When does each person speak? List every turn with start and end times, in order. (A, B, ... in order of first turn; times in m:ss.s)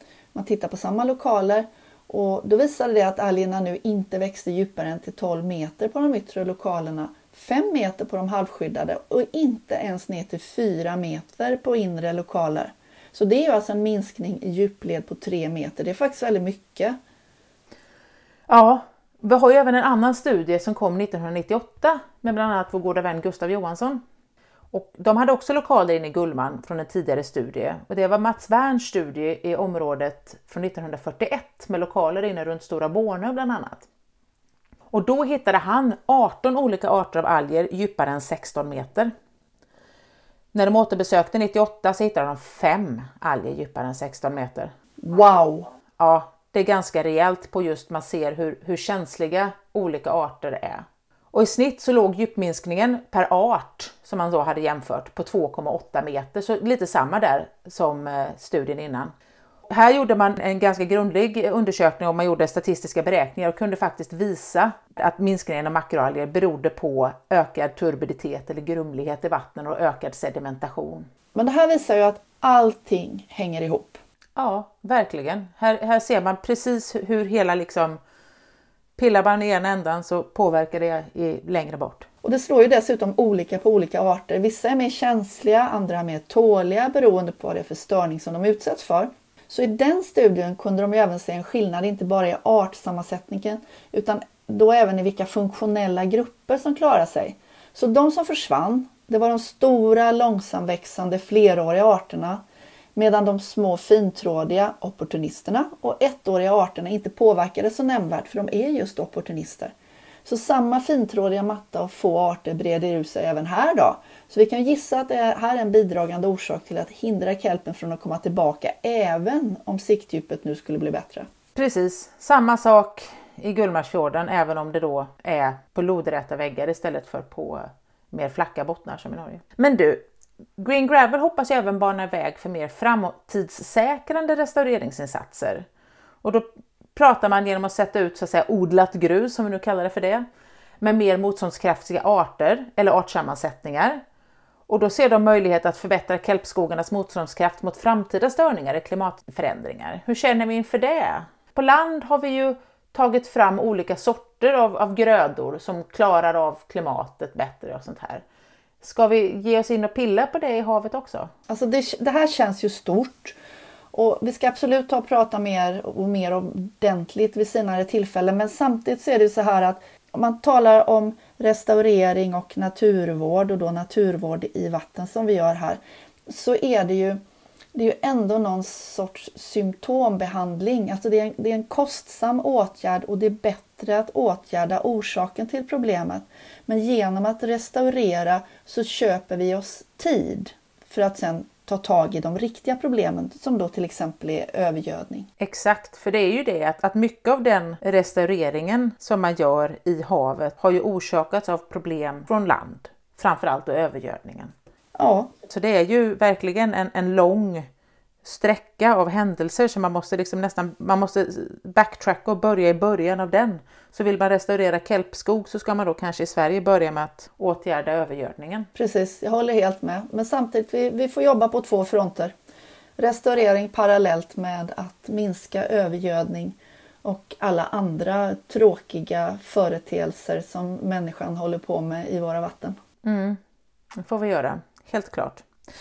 0:00.3-0:17.0 A
0:18.5-0:24.0 B
0:24.7-0:33.9 B
0:34.9-0:39.1 B
0:40.5-0:44.7 B
0:45.0-0:45.7 A
0:46.0-0:59.1 B
0:59.7-1:11.1 B
1:11.3-1:14.0 A
1:14.4-1:18.0 B
1:19.0-1:22.1 B
1:22.2-1:42.4 A
1:43.0-1:49.7 A
1:50.2-2:01.3 A
2:01.6-2:10.0 B
2:10.6-2:15.7 B
2:16.2-2:20.2 B
2:20.8-2:24.0 B
2:24.7-2:38.2 B
2:38.8-2:41.3 B
2:41.5-2:43.4 A
2:43.9-2:57.2 A
2:57.7-3:15.3 A
3:15.4-3:24.5 B
3:25.0-3:25.3 A
3:25.5-3:27.7 B
3:28.2-3:38.7 B
3:38.8-3:42.3 A
3:43.0-3:52.8 A
3:53.0-3:53.4 B
3:54.0-3:55.4 B